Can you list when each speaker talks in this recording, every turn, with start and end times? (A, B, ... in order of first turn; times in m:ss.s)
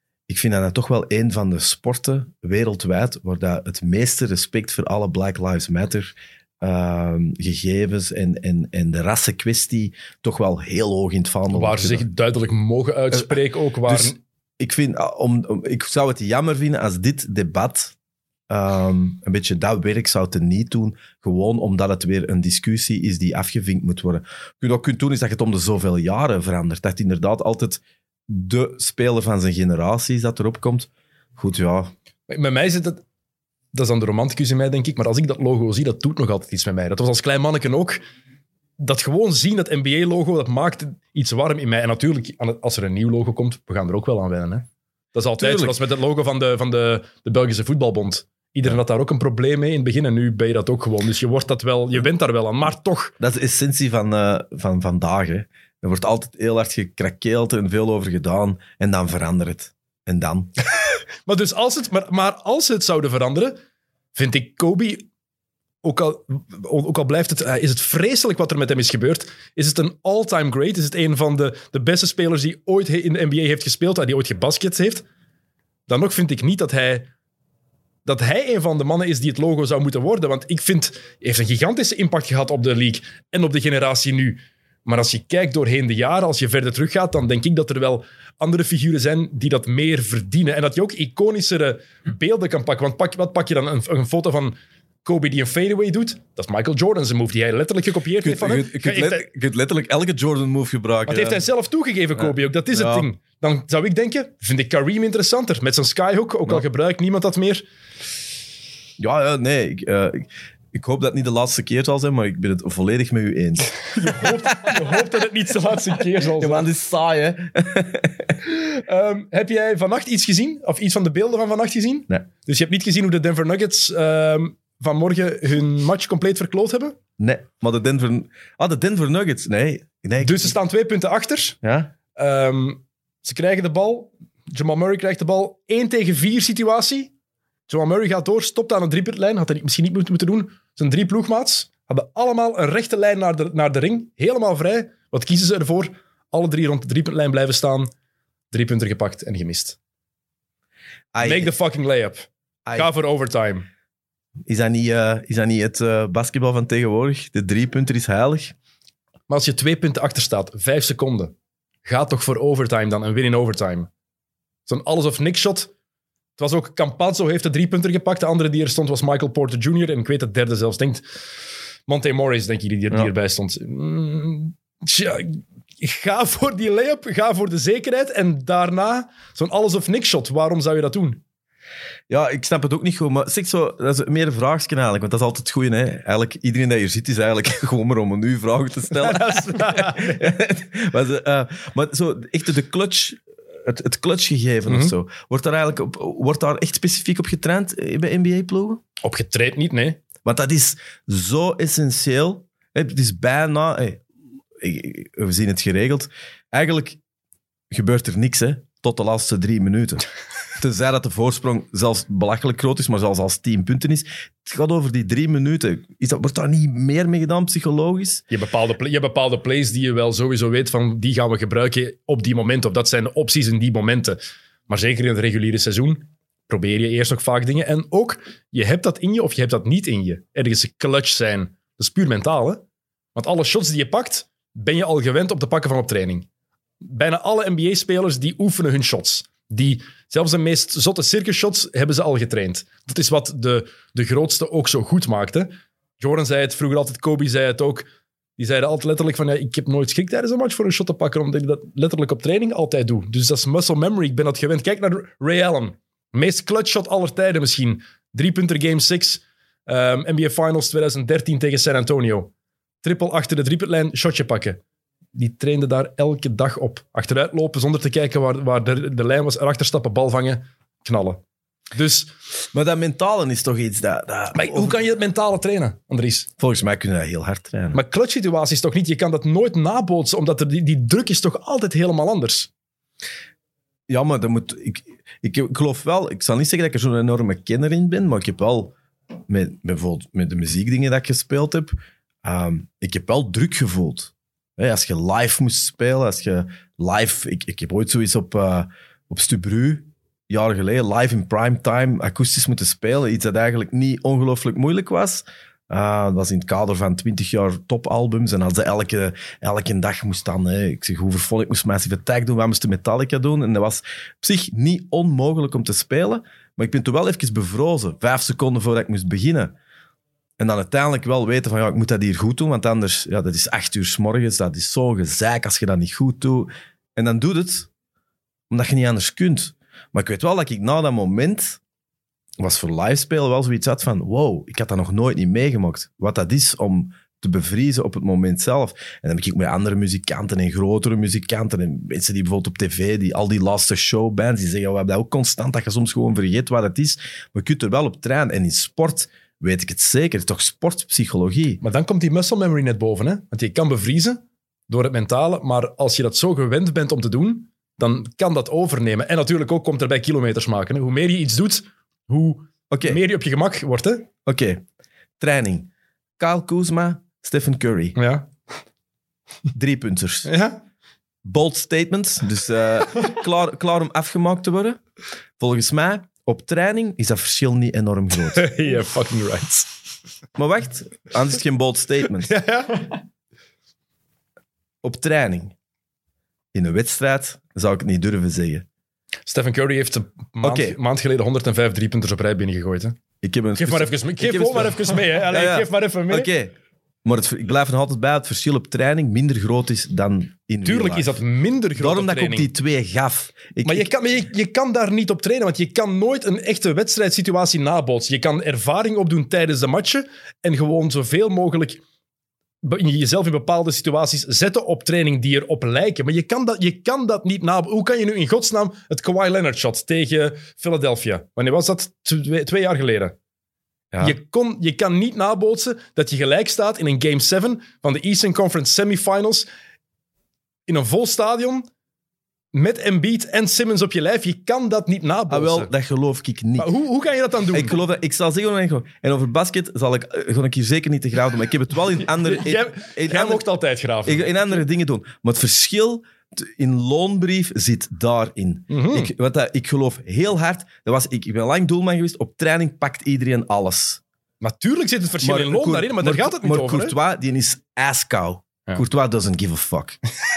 0:00.3-0:12.1 A
0:11.5-0:14.2 B
0:13.9-0:17.9 A
0:18.5-0:31.9 A
0:32.3-0:33.0 B
0:33.7-0:38.0 B
0:38.8-0:53.1 B
0:45.4-0:45.8 A
0:53.2-1:00.5 A
1:01.2-1:03.6 B
1:04.1-1:05.1 B
1:05.8-1:15.0 B
1:15.9-1:17.1 B
1:18.1-1:39.3 B
1:38.2-1:41.4 A
1:41.1-1:47.6 B
1:42.2-1:43.1 A
1:49.0-1:54.8 A
1:53.9-1:56.7 B
1:56.4-1:58.4 A
1:58.4-2:07.0 B
2:07.2-2:10.6 A
2:10.2-2:11.6 B
2:11.6-2:11.9 A
2:12.1-2:17.1 B
2:17.7-2:27.9 B
2:28.5-2:29.8 B
2:31.1-2:31.5 A
2:31.2-2:33.7 B
2:34.5-2:38.5 A
2:39.3-2:41.3 B
2:41.8-2:43.9 B
2:44.7-2:45.7 B
2:46.4-2:51.0 B
2:51.9-3:01.2 B
3:02.1-3:18.8 A
3:09.0-3:10.4 B
3:14.7-3:14.9 B
3:19.0-3:20.0 B
3:20.2-3:24.0 A
3:24.6-3:27.0 A
3:27.7-3:30.0 A
3:30.6-3:38.2 A
3:38.3-3:52.6 B
3:53.1-3:56.2 B
3:56.8-4:07.9 B
4:08.4-4:22.3 B
4:22.8-4:24.6 B
4:25.1-4:31.2 B
4:31.7-4:32.1 B
4:32.5-4:34.8 A
4:34.3-4:36.3 B
4:36.4-4:37.8 A
4:37.7-4:42.5 B
4:43.9-4:48.8 A
4:49.3-5:19.5 A
5:20.4-5:27.7 A
5:28.5-5:31.6 A
5:32.4-5:51.6 A
5:51.6-6:04.1 B
6:02.7-6:03.0 A
6:04.2-6:04.6 A
6:05.2-6:08.0 A
6:08.0-6:08.3 B
6:09.5-6:10.3 A
6:10.2-6:10.6 B
6:11.2-6:14.8 A
6:15.4-6:18.5 A
6:18.3-6:19.7 B
6:20.4-6:22.3 A
6:22.2-6:23.0 B
6:24.8-6:25.5 A
6:26.5-6:28.7 A
6:29.3-6:33.0 B
6:30.4-6:30.8 A
6:33.2-6:41.2 A
6:33.6-6:36.3 B
6:40.6-6:42.5 B
6:41.8-6:43.9 A
6:43.6-6:51.8 B
6:52.6-7:03.1 B
7:04.0-7:09.5 B
7:10.7-7:11.7 B
7:12.5-7:15.7 B
7:15.3-7:16.7 A
7:16.6-7:17.8 B
7:17.5-7:23.4 A
7:22.2-7:24.6 B
7:24.0-7:34.0 A
7:28.7-7:29.1 B
7:34.4-7:37.0 B
7:35.2-7:40.0 A